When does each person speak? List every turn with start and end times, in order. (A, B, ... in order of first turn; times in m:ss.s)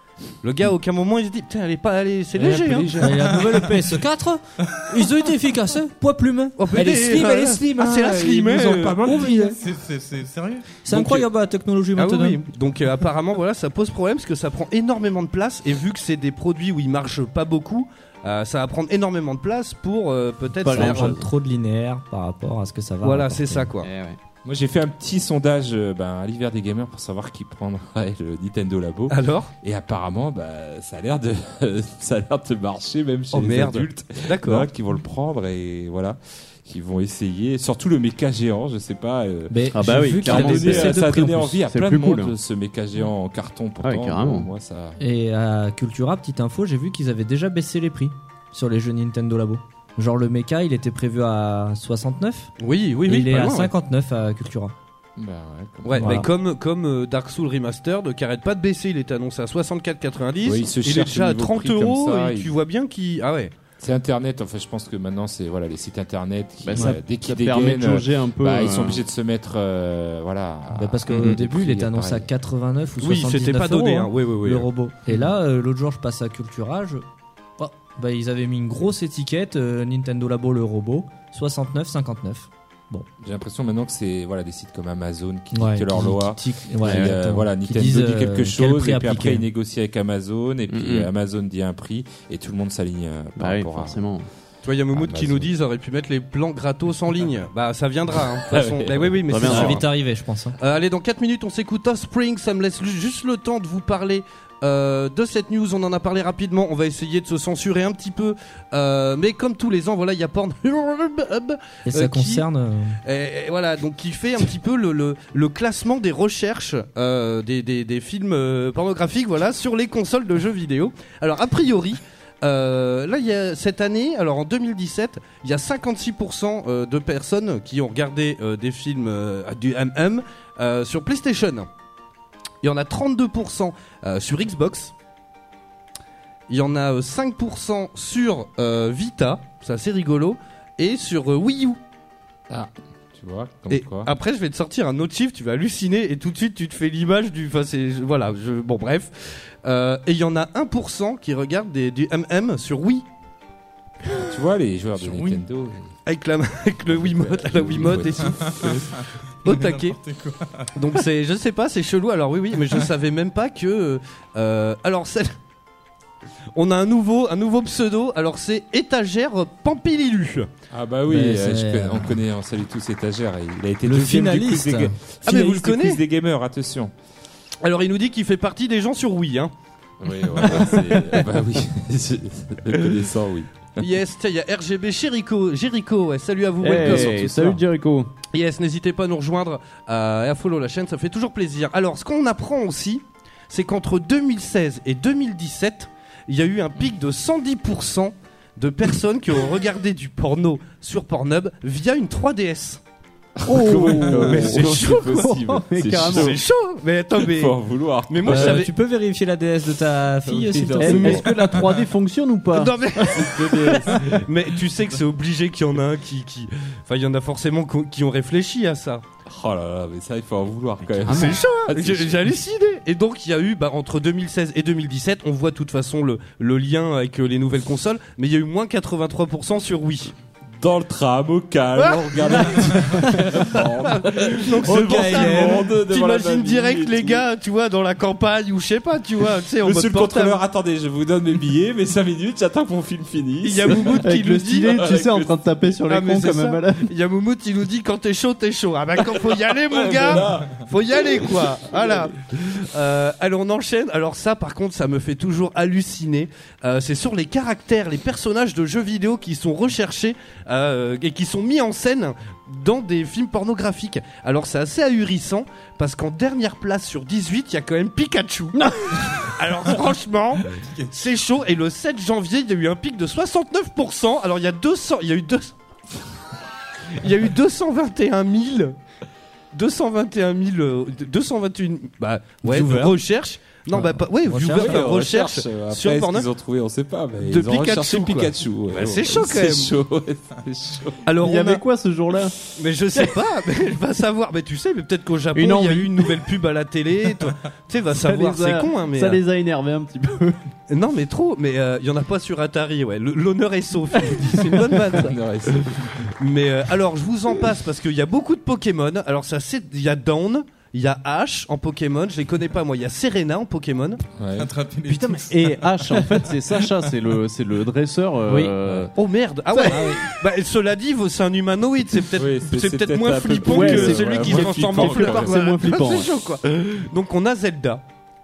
0:00.4-0:03.1 A
0:02.4-0:03.6 B
0:03.0-0:07.6 C
0:06.6-0:09.4 A
0:06.7-0:09.6 B
0:09.1-0:09.6 C
0:09.5-0:10.7 D
0:10.8-0:12.4 C
0:10.9-0:11.3 A
0:12.0-0:21.2 A
0:20.6-0:21.3 E
0:20.7-0:23.7 C
0:23.0-0:23.9 A
0:23.8-0:24.2 E
0:24.4-0:45.0 B
0:29.1-0:29.5 A
0:33.3-0:34.7 A
0:39.5-0:41.6 C
0:39.7-0:42.3 E
0:43.8-0:44.5 E
0:45.0-0:52.5 C
0:52.6-0:53.7 A
0:53.1-0:54.8 C
0:55.2-0:56.2 B
0:55.8-1:03.5 A
0:56.0-0:56.3 C
1:00.4-1:02.5 B
1:03.8-1:12.3 B
1:06.6-1:09.0 E
1:10.7-1:17.0 C
1:13.0-1:14.7 A
1:17.6-1:23.1 C
1:23.2-1:34.0 B
1:25.5-1:29.4 C
1:26.8-1:27.1 E
1:30.7-1:31.1 E
1:33.4-1:34.3 E
1:34.6-1:39.9 A
1:34.9-1:35.5 B
1:38.5-1:39.2 B
1:39.3-1:39.8 E
1:39.4-1:40.6 C
1:40.6-1:52.4 A
1:51.9-1:53.0 C
1:53.0-2:11.7 A
2:12.6-2:14.9 A
2:16.5-2:21.8 A
2:22.5-2:24.1 B
2:23.7-2:33.1 A
2:34.2-2:35.8 B
2:35.0-2:35.4 D
2:36.1-2:38.9 A
2:37.0-2:38.8 B
2:38.2-2:40.7 D
2:39.4-2:40.0 A
2:40.8-2:45.3 A
2:46.6-2:50.5 A
2:50.7-2:56.9 B
2:51.1-2:52.2 C
2:53.8-2:54.9 C
2:55.2-2:56.0 A
2:57.6-2:59.5 A
3:00.0-3:03.9 B
3:00.4-3:01.2 A
3:03.8-3:07.4 A
3:06.6-3:08.1 E
3:06.8-3:07.6 B
3:08.3-3:22.8 A
3:23.4-3:26.4 B
3:23.4-3:26.4 E
3:23.7-3:25.3 A
3:26.0-3:28.7 A
3:27.2-3:28.6 B
3:28.3-3:31.4 C
3:30.3-3:31.6 B
3:30.8-3:34.3 E
3:32.5-3:39.0 A
3:39.3-3:42.2 B
3:41.0-3:41.5 E
3:41.0-3:50.1 A
3:50.6-3:57.2 B
3:51.8-4:00.4 A
3:54.7-3:55.6 C
3:59.6-4:04.1 B
4:03.4-4:04.9 A
4:04.0-4:06.9 E
4:04.7-4:05.3 B
4:05.9-4:35.5 A
4:09.7-4:10.6 B
4:36.9-4:38.8 A
4:39.5-4:46.3 A
4:42.5-4:42.9 C
4:43.7-4:44.8 C
4:44.5-4:51.0 B
4:47.2-4:49.7 A
4:51.1-4:51.6 A
4:51.2-4:52.4 E
4:52.6-4:59.2 A
4:55.4-4:56.2 E
4:57.9-5:00.4 E
5:00.7-5:14.0 A
5:04.1-5:04.4 E
5:04.9-5:06.1 B
5:14.2-5:14.6 B
5:14.4-5:15.7 D
5:14.9-5:18.9 E
5:19.0-5:27.8 A
5:19.5-5:20.0 E
5:19.7-5:20.1 C
5:22.2-5:25.4 B
5:23.4-5:26.1 E